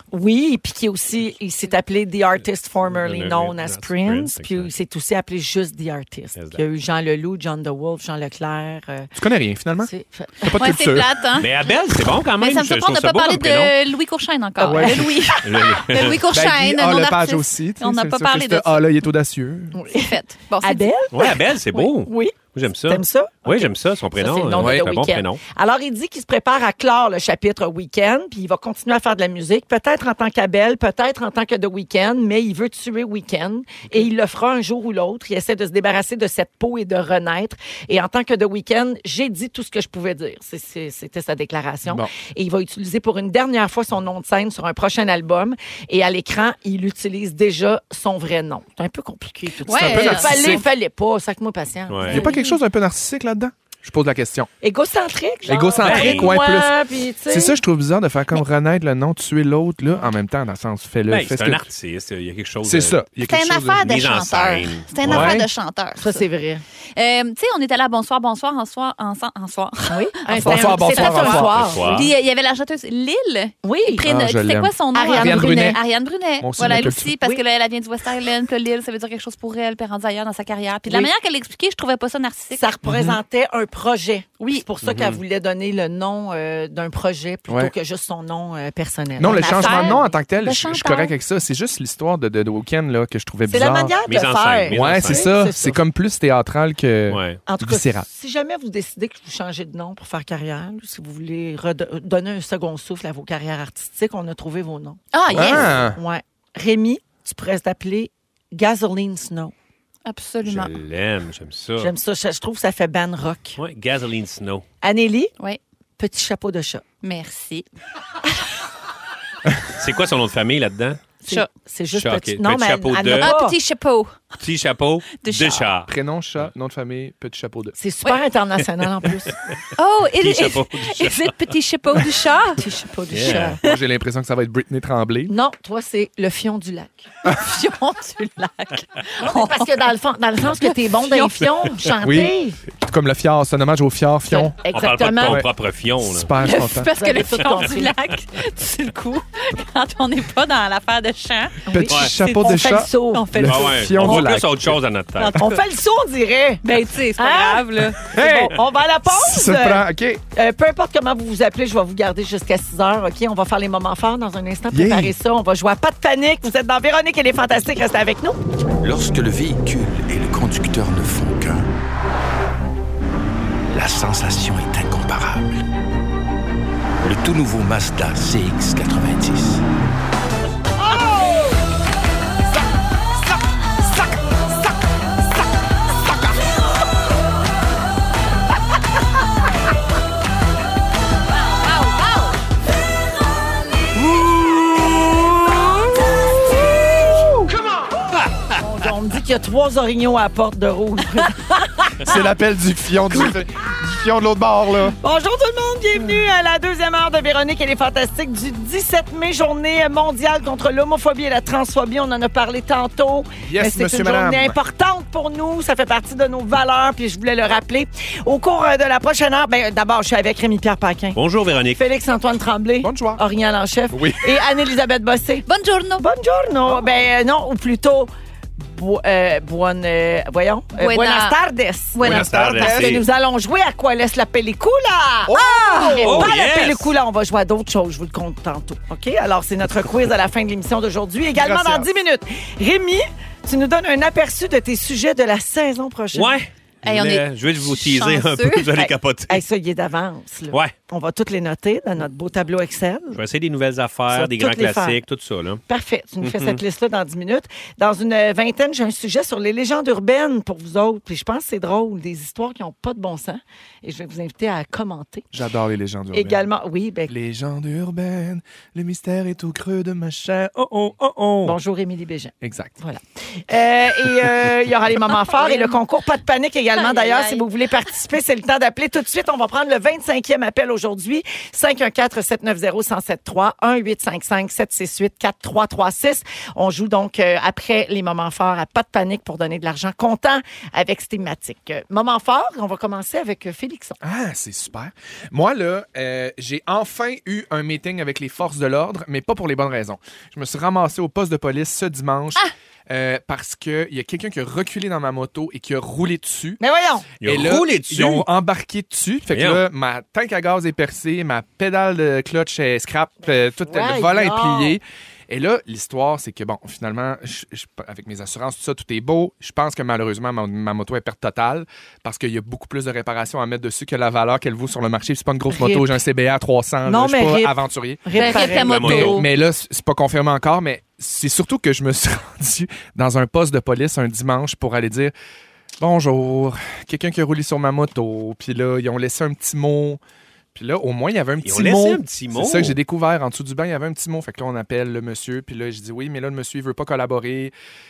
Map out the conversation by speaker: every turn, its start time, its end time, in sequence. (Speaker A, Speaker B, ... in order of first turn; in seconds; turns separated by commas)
Speaker A: 0.1-9.1, Speaker B: 2.9-4.7, Speaker B: 6.3-6.6, Speaker C: 9.2-9.9, Speaker A: 9.8-10.6, Speaker C: 10.4-11.2, Speaker D: 10.6-11.5, Speaker B: 11.4-13.8, Speaker D: 12.4-18.8, Speaker A: 14.6-15.3, Speaker C: 14.6-15.4, Speaker B: 15.4-16.2, Speaker C: 16.3-19.8, Speaker A: 19.7-52.4, Speaker D: 20.0-20.9, Speaker B: 21.1-25.4, Speaker C: 24.5-24.9, Speaker C: 41.9-42.1, Speaker D: 49.6-50.6, Speaker C: 49.7-50.6, Speaker B: 51.9-52.2, Speaker C: 52.1-54.5, Speaker D: 52.1-52.6, Speaker A: 54.6-57.6, Speaker C: 55.5-61.7, Speaker B: 55.8-56.4, Speaker B: 61.1-63.0, Speaker C: 62.6-63.8, Speaker D: 63.2-66.2, Speaker B: 63.8-65.4, Speaker C: 65.0-65.5, Speaker A: 66.0-66.6, Speaker D: 66.9-82.6, Speaker A: 69.9-71.9, Speaker C: 70.3-72.0, Speaker B: 71.6-72.1, Speaker A: 73.6-74.0, Speaker C: 74.0-75.8, Speaker A: 74.9-75.8, Speaker C: 76.4-77.1, Speaker A: 80.8-81.1, Speaker A: 82.5-90.1, Speaker C: 82.8-83.2, Speaker B: 84.8-85.2, Speaker C: 89.2-93.9, Speaker D: 89.2-91.1, Speaker A: 93.5-95.8, Speaker B: 94.1-95.3, Speaker C: 94.7-98.1, Speaker B: 97.1-97.4, Speaker A: 97.5-109.5, Speaker D: 105.1-105.7, Speaker C: 105.3-106.0, Speaker B: 105.3-105.7, Speaker D: 110.0-110.7, Speaker B: 110.5-111.9, Speaker A: 111.8-113.6, Speaker B: 113.6-114.7, Speaker A: 114.8-115.3, Speaker A: 116.0-116.8, Speaker D: 117.0-117.7, Speaker B: 119.7-121.0, Speaker A: 121.2-123.5, Speaker B: 121.9-123.3, Speaker D: 123.1-124.4, Speaker B: 124.4-125.9, Speaker D: 125.2-125.7, Speaker C: 125.9-127.7, Speaker A: 127.8-129.3, Speaker D: 129.8-132.6, Speaker B: 130.2-131.4, Speaker A: 132.6-133.6, Speaker B: 133.1-133.6, Speaker C: 133.2-135.3, Speaker A: 135.3-137.1, Speaker D: 137.3-139.8, Speaker A: 139.2-142.6, Speaker D: 140.5-141.5, Speaker C: 142.0-144.6, Speaker A: 144.3-145.4, Speaker B: 144.7-146.3, Speaker C: 145.2-146.9, Speaker D: 146.4-151.7, Speaker A: 146.8-147.9, Speaker A: 151.7-153.3, Speaker C: 151.7-154.8, Speaker D: 153.1-154.2, Speaker B: 153.4-155.4, Speaker D: 155.2-155.6, Speaker A: 155.3-168.4, Speaker D: 156.6-158.1, Speaker C: 158.1-160.2, Speaker C: 164.7-165.1, Speaker E: 168.8-171.6, Speaker E: 173.7-175.4, Speaker E: 177.0-178.6, Speaker A: 198.6-202.1, Speaker C: 202.0-204.9, Speaker A: 205.0-221.2, Speaker C: 213.4-214.6, Speaker B: 221.1-221.8, Speaker A: 221.7-225.4, Speaker C: 222.8-223.2, Speaker C: 223.9-224.4, Speaker D: 225.5-226.1, Speaker A: 226.0-246.3, Speaker D: 230.8-231.4, Speaker D: 231.9-232.3, Speaker C: 232.0-233.0, Speaker B: 232.0-233.0, Speaker C: 235.2-236.3, Speaker B: 236.0-236.9, Speaker C: 241.3-241.9, Speaker B: 246.1-249.4, Speaker D: 246.8-248.7, Speaker A: 248.8-253.2, Speaker B: 253.1-255.6, Speaker A: 254.1-255.0, Speaker A: 255.7-265.3, Speaker B: 256.2-256.6, Speaker C: 265.3-266.5, Speaker A: 266.1-267.1, Speaker C: 267.1-271.5, Speaker B: 271.0-271.3, Speaker A: 271.4-294.0, Speaker C: 272.4-272.8, Speaker D: 275.3-275.8, Speaker D: 276.8-277.4, Speaker C: 294.0-306.6, Speaker A: 306.6-307.1, Speaker B: 307.2-308.3, Speaker C: 307.2-335.1, Speaker B: 309.3-309.6, Speaker A: 313.6-314.8, Speaker A: 325.5-326.0, Speaker A: 326.9-329.0, Speaker D: 328.1-329.3, Speaker B: 328.6-329.2, Speaker C: 335.8-340.0, Speaker C: 340.5-347.5, Speaker B: 341.4-342.8